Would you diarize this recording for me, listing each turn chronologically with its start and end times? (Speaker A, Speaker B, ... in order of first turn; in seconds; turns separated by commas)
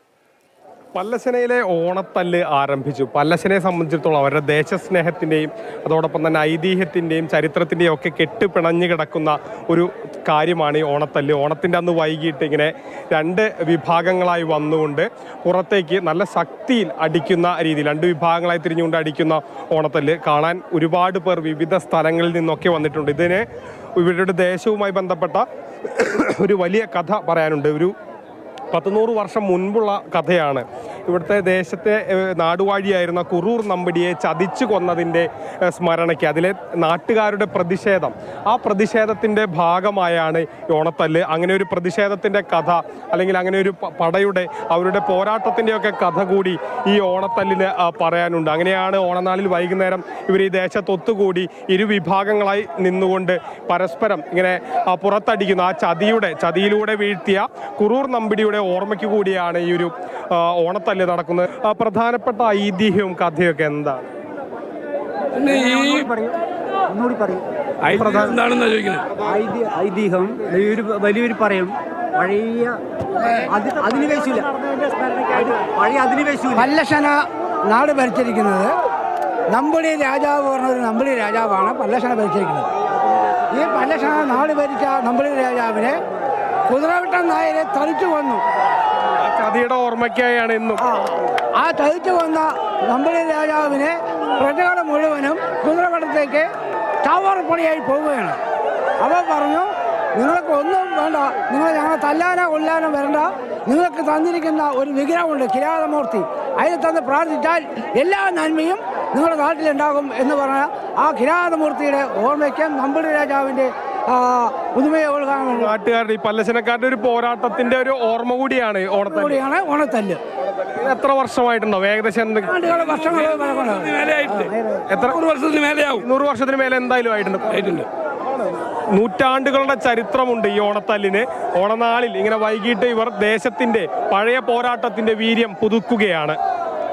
Speaker A: 0.9-23.4, Speaker A: 24.0-27.9, Speaker A: 28.7-64.0, Speaker B: 65.3-67.5, Speaker C: 67.8-69.0, Speaker B: 69.2-72.8, Speaker B: 73.5-76.7, Speaker D: 76.5-78.7, Speaker D: 79.5-82.7, Speaker D: 83.5-86.0, Speaker D: 86.7-88.4, Speaker A: 89.2-90.8, Speaker D: 90.8-96.5, Speaker D: 97.0-98.4, Speaker D: 99.0-115.7, Speaker A: 115.5-119.4, Speaker D: 119.1-120.2, Speaker A: 120.7-122.5, Speaker D: 122.5-124.8, Speaker C: 124.1-124.5, Speaker A: 124.9-125.2, Speaker C: 125.3-126.0, Speaker A: 125.9-127.8, Speaker A: 128.9-136.4